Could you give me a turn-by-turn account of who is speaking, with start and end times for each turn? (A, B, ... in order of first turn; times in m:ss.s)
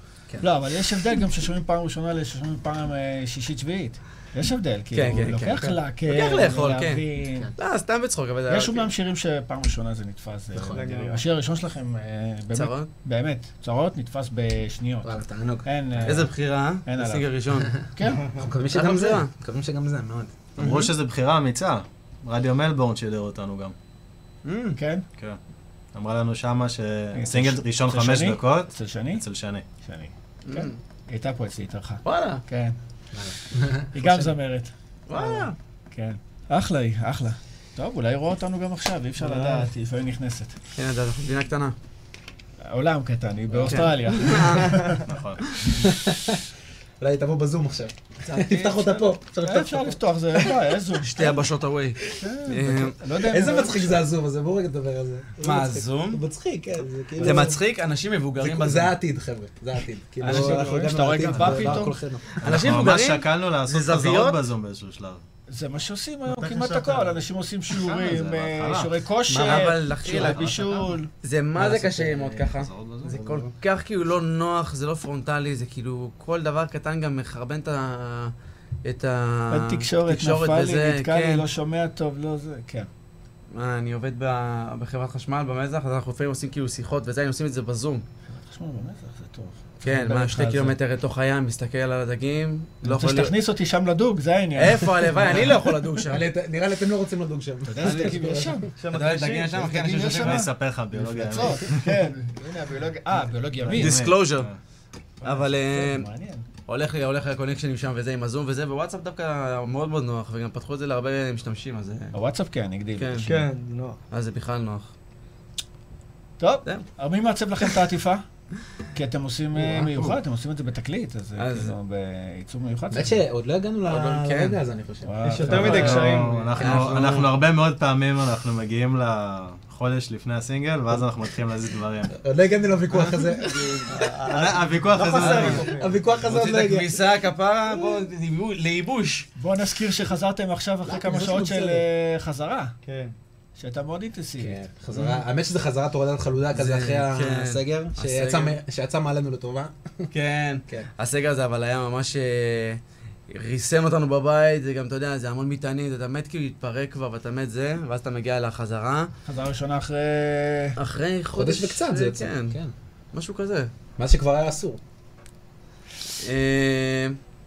0:00.4-0:07.5 A
0:04.9-0:08.9 B
0:08.5-0:16.3 A
0:10.5-0:10.8 C
0:10.6-0:11.2 D
0:12.5-0:12.9 B
0:15.0-0:16.2 C
0:16.0-0:17.7 B
0:16.8-0:17.3 A
0:17.9-0:18.3 A
0:18.3-0:20.5 C
0:18.7-0:19.3 B
0:20.6-0:23.7 E
0:20.6-0:20.9 B
0:24.4-0:24.8 B
0:24.8-0:25.0 A
0:25.9-0:29.6 E
0:27.1-0:29.2 A
0:29.8-0:32.8 A
0:30.4-0:30.8 B
0:32.0-0:32.4 B
0:33.1-0:34.3 C
0:33.9-0:40.6 A
0:35.1-0:35.6 B
0:40.8-0:41.8 B
0:42.6-0:45.0 A
0:43.5-0:43.8 C
0:43.6-0:44.8 B
0:45.0-0:45.6 E
0:45.8-0:46.4 C
0:47.0-0:50.0 C
0:48.2-0:49.1 B
0:49.4-0:51.4 A
0:51.0-0:53.0 B
0:52.2-0:54.0 A
0:53.2-0:57.6 C
0:55.4-0:56.2 B
0:57.2-0:59.0 B
0:58.4-1:02.4 C
1:00.2-1:02.0 A
1:00.2-1:00.7 B
1:01.3-1:01.8 E
1:02.3-1:04.4 B
1:02.4-1:05.2 E
1:05.5-1:11.1 A
1:06.4-1:07.2 D
1:07.7-1:10.9 E
1:09.3-1:10.6 B
1:11.2-1:18.3 B
1:11.6-1:13.5 E
1:18.8-1:21.4 B
1:19.5-1:22.9 A
1:23.5-1:28.0 B
1:28.3-1:30.8 A
1:29.8-1:33.3 B
1:32.8-1:35.6 A
1:34.6-1:36.2 B
1:35.3-1:38.7 C
1:37.6-1:38.7 A
1:37.8-1:38.2 B
1:38.8-1:39.7 D
1:38.9-1:40.5 B
1:39.6-1:44.0 A
1:40.2-1:41.9 E
1:43.6-1:44.6 E
1:43.7-1:44.5 B
1:45.2-1:46.4 A
1:45.2-1:46.1 B
1:46.6-1:52.1 B
1:52.1-1:53.5 A
1:53.0-1:53.3 B
1:53.2-1:54.0 D
1:54.1-1:54.9 B
1:56.4-1:58.2 A
1:58.9-2:03.2 A
2:01.4-2:01.7 B
2:02.9-2:07.2 C
2:03.9-2:04.6 B
2:05.0-2:06.2 A
2:05.2-2:06.5 D
2:05.5-2:12.1 E
2:06.5-2:07.3 B
2:12.1-2:14.1 C
2:14.0-2:16.0 D
2:14.2-2:15.7 E
2:15.0-2:17.0 C
2:15.0-2:19.3 B
2:19.4-2:22.7 A
2:20.8-2:21.8 C
2:22.8-2:23.1 D
2:23.6-2:24.6 A
2:24.4-2:30.1 C
2:24.9-2:25.2 B
2:26.5-2:28.6 B
2:30.1-2:39.1 B
2:39.2-2:40.8 A
2:40.8-2:42.6 B
2:41.3-2:42.7 C
2:43.1-2:43.7 B
2:44.0-2:44.8 C
2:46.2-2:47.2 B